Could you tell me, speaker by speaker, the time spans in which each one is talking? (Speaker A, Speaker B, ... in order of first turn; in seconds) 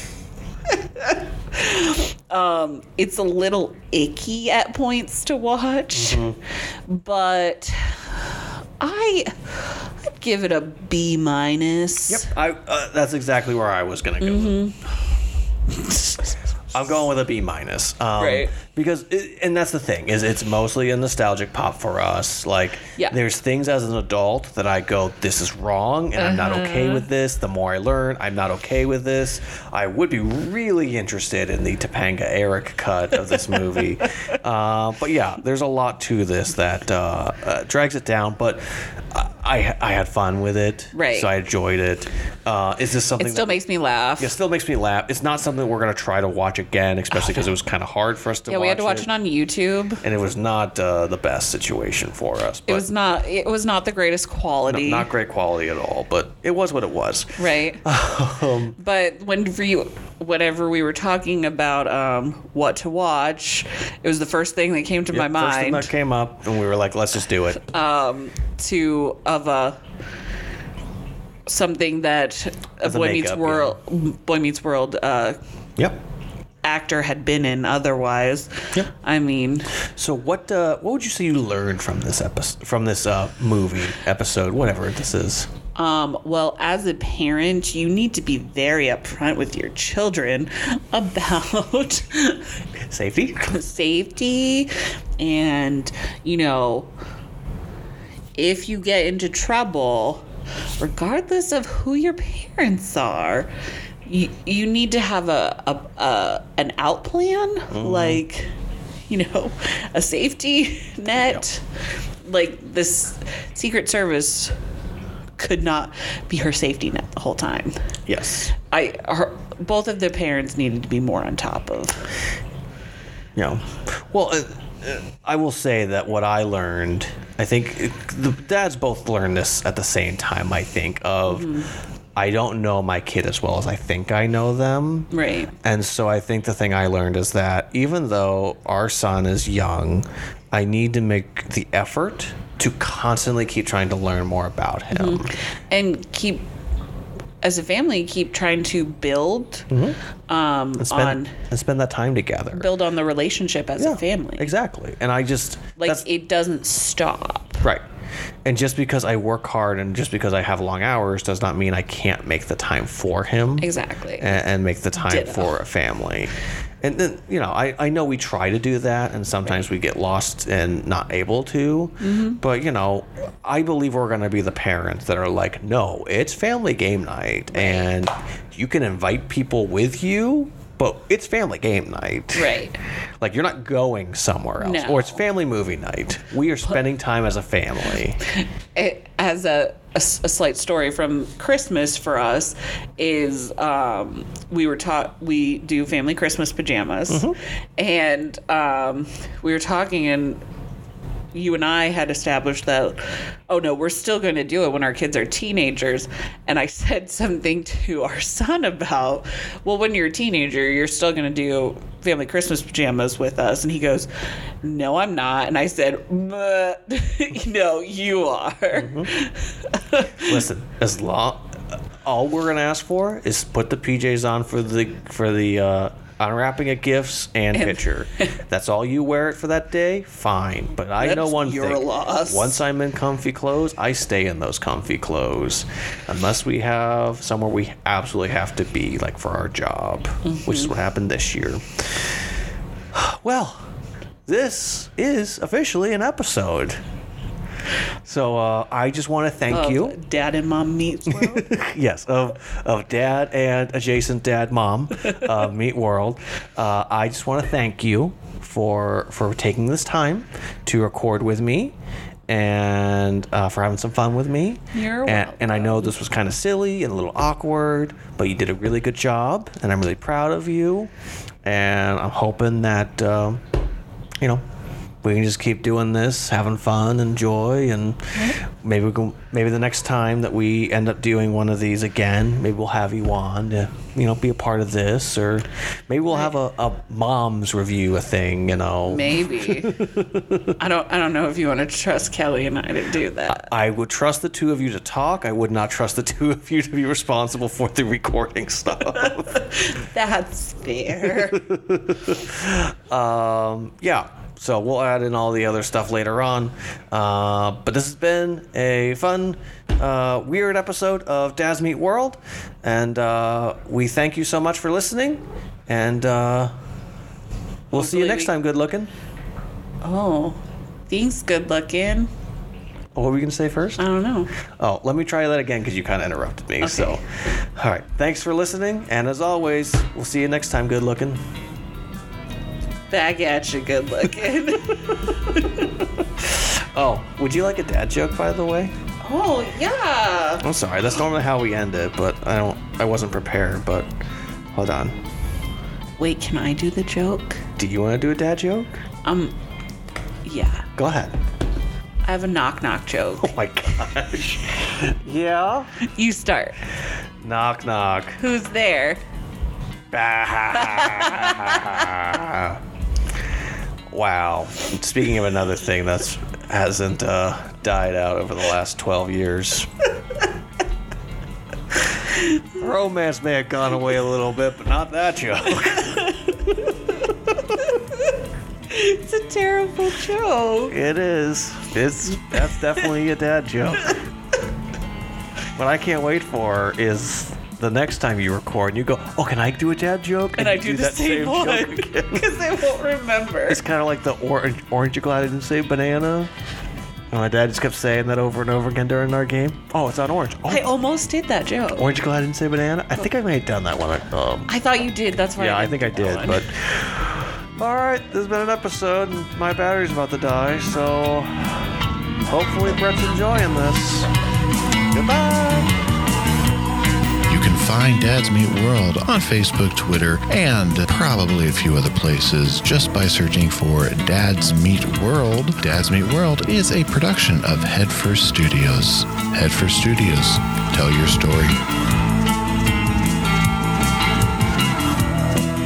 Speaker A: 0.7-6.3, 6.9-12.3, 14.2-14.8, 15.8-16.2, 18.2-18.5, 26.2-27.1, 40.9-41.3, 43.2-44.3, 47.1-47.5, 48.5-50.0, 52.7-55.1, 57.4-57.8, 58.8-65.9, 67.7-69.8, 71.5-75.4, 76.6-79.7, 85.8-92.5, 93.5-96.9, 98.4-100.2, 100.8-103.5, 104.1-108.5, 109.1-111.6, 112.2-114.5, 115.4-117.8, 118.6-122.2, 131.3-131.7, 135.1-135.5, 144.9-146.5, 147.4-149.7, 150.3-151.3, 152.5-154.5, 155.8-157.6, 163.6-164.4, 165.0-165.6, 172.0-172.4, 177.5-177.9, 182.3-182.8, 184.6-185.2, 188.8-200.4, 201.3-214.1, 214.6-220.4, 227.5-228.3, 231.0-232.6, 240.2-240.7, 249.5-251.6, 255.0-255.4, 264.7-265.9, 288.9-289.8, 290.6-293.5, 298.9-301.4, 317.7-318.3, 319.8-322.1, 323.8-324.3, 326.6-327.0, 332.9-335.7, 339.0-340.4, 346.0-347.4, 349.1-349.4, 350.2-350.7, 352.1-353.3, 355.8-356.6, 358.2-359.0, 360.6-361.9, 375.6-376.7, 377.7-378.0, 378.7-380.7, 382.3-382.9, 390.4-393.6, 400.5-401.9, 404.5-406.4
Speaker B: 5.9-6.4, 12.1-14.7, 16.7-43.6, 44.2-49.1, 50.0-52.9, 54.7-58.8, 65.1-67.7, 72.8-73.8, 79.8-85.5, 92.8-93.6, 107.7-108.2, 118.1-118.5, 123.4-131.5, 132.2-135.1, 135.6-145.3, 149.7-150.0, 150.8-152.7, 153.8-156.1, 158.4-182.6, 183.2-188.2, 197.1-197.4, 218.7-219.1, 220.2-242.0, 242.9-243.7, 244.3-246.8, 248.1-250.0, 251.1-261.8, 262.3-270.9, 271.4-273.4, 275.0-290.5, 293.3-299.4, 301.1-316.6, 317.7-318.9, 323.0-323.9, 324.6-331.2, 336.2-338.7, 340.4-343.9, 344.5-345.0, 347.6-348.8, 350.8-351.1, 353.2-355.7, 357.2-358.2, 359.9-362.6, 363.9-369.7, 372.6-376.1, 377.2-377.6, 380.7-384.0, 385.6-392.3, 393.5-396.3, 397.1-400.6, 401.8-404.5, 405.4-411.8, 412.3-414.1, 414.9-415.7
Speaker C: 417.3-431.6